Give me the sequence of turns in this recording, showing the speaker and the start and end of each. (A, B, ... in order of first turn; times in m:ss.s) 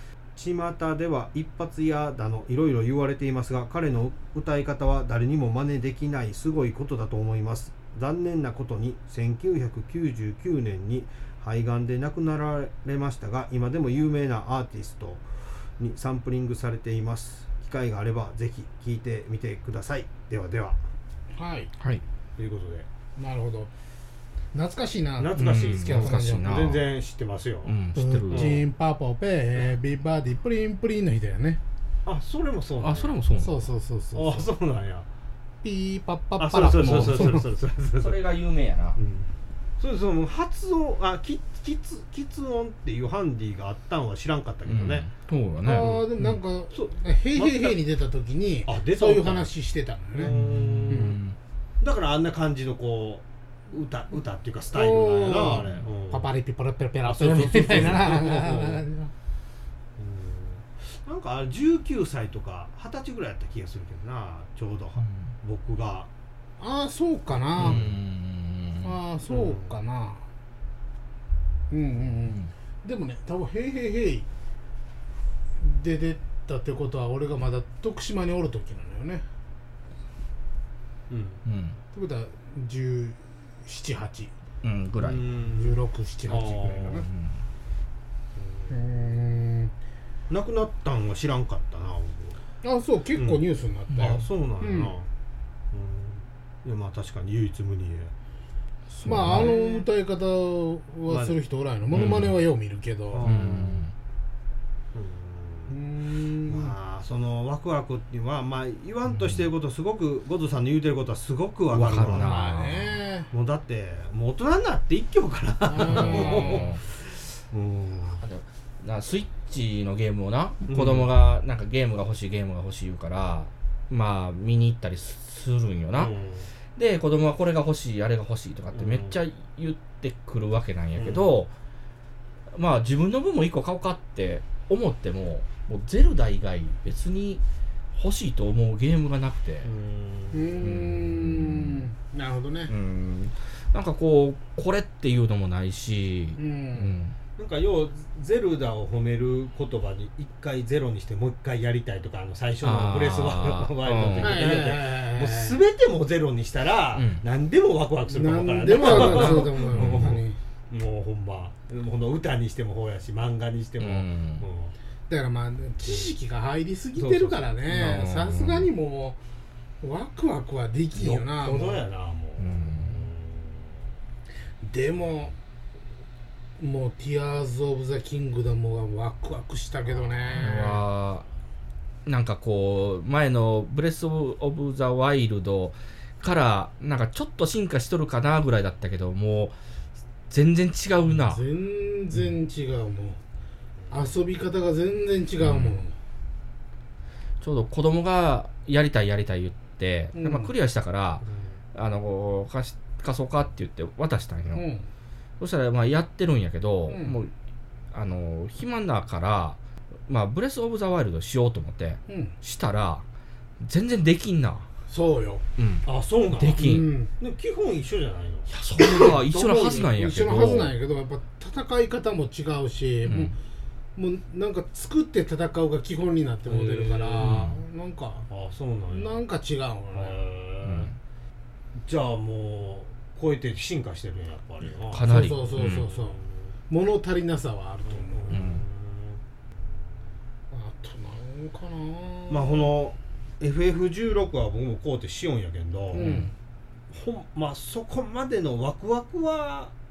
0:00.3-0:20.8 A
0:21.3-0:21.7 B
0:22.4-0:22.9 A
0:23.2-0:23.7 B
0:24.5-0:26.6 B
0:25.2-0:27.8 A
0:25.3-0:26.8 C
0:27.6-0:28.6 C
0:27.9-0:31.6 B
0:28.3-0:28.6 A
0:32.0-0:33.2 A
0:32.8-0:33.7 C
0:33.4-0:34.5 B
0:34.1-0:35.1 A
0:35.6-0:37.4 B
0:36.4-0:38.2 A
0:36.6-0:39.0 C
0:39.0-0:45.1 A
0:44.6-0:46.4 C
0:45.6-0:50.3 B
0:45.7-0:46.1 A
0:46.7-0:47.8 A
0:48.6-0:49.5 A
0:50.2-0:51.2 A
0:50.2-0:51.4 C
0:50.9-0:51.2 B
0:51.8-0:56.3 A
0:54.7-0:59.1 B
0:55.5-0:55.8 C
0:57.0-0:58.8 A
1:00.0-1:06.1 A
1:05.0-1:05.3 C
1:06.6-1:07.8 B
1:07.5-1:08.0 A
1:07.6-1:08.9 C
1:08.8-1:10.2 B
1:09.3-1:09.7 A
1:11.7-1:14.3 B
1:15.6-1:19.2 B
1:21.1-1:21.4 A
1:21.4-1:21.8 C
1:21.9-1:24.3 B
1:24.6-1:25.2 C
1:25.0-1:27.0 A
1:25.5-1:27.1 B
1:27.0-1:27.4 C
1:28.3-1:29.1 A
1:28.7-1:29.7 B
1:30.3-1:32.4 A
1:32.6-1:34.9 B
1:33.1-1:33.4 A
1:33.9-1:35.1 A
1:35.7-1:38.1 A
1:39.0-1:43.3 B
1:39.0-1:39.5 C
1:39.1-1:39.8 A
1:41.1-1:41.4 A
1:41.9-1:42.4 C
1:41.9-1:42.2 A
1:43.1-1:43.8 A
1:43.2-1:43.9 C
1:44.9-1:45.8 A
1:45.7-1:46.7 B
1:46.4-1:52.3 A
1:49.2-1:49.5 C
1:51.7-1:53.0 C
1:51.8-1:53.3 B
1:53.3-1:58.2 A
1:55.7-1:56.7 B
1:55.8-1:56.8 C
1:58.2-2:06.1 C
2:00.7-2:01.1 A
2:06.0-2:06.5 A
2:06.7-2:11.5 C
2:08.7-2:09.2 A
2:11.0-2:11.4 A
2:12.5-2:17.4 C
2:17.9-2:19.7 C
2:19.6-2:20.7 A
2:20.3-2:22.7 B
2:20.6-2:21.8 C
2:22.7-2:27.2 C
2:26.4-2:27.0 B
2:27.4-2:44.7 A
2:32.6-2:34.5 C
2:34.2-2:35.6 B
2:36.9-2:37.2 C
2:38.1-2:40.4 B
2:39.1-2:40.1 C
2:43.8-2:44.4 C
2:45.1-2:49.2 B
2:47.0-2:47.6 A
2:47.6-2:48.7 C
2:49.8-2:51.8 B
2:50.9-2:53.8 A
2:52.4-2:53.0 C
2:54.6-2:55.3 B
2:56.6-3:00.8 B
3:00.4-3:01.2 C
3:02.0-3:09.6 C
3:10.3-3:11.4 C
3:11.1-3:13.2 B
3:13.9-3:15.9 B
3:15.4-3:15.8 C
3:17.4-3:24.6 C
3:20.1-3:20.5 B
3:21.2-3:21.6 A
3:24.5-3:24.9 B
3:25.4-3:27.3 C
3:26.9-3:27.2 B
3:27.9-3:33.0 C
3:32.1-3:32.3 B
3:33.6-3:34.7 C
3:34.9-3:35.4 B
3:35.6-3:36.9 C
3:35.8-3:38.5 A
3:36.6-3:37.1 B
3:38.5-3:40.7 C
3:38.7-3:43.4 B
3:43.0-3:43.3 C
3:44.0-3:48.2 B
3:46.4-3:47.4 A
3:47.2-3:47.6 C
3:48.3-3:49.2 A
3:48.9-3:50.2 B
3:49.9-3:50.9 A
3:50.6-3:50.9 C
3:51.8-3:56.4 A
3:54.9-3:55.8 C
3:55.0-3:56.2 B
3:56.7-3:58.4 B
3:57.8-3:59.2 A
3:58.3-3:58.6 C
4:00.5-4:02.7 B
4:02.3-4:06.1 A
4:05.9-4:06.3 B
4:05.9-4:06.3 C
4:06.9-4:09.7 A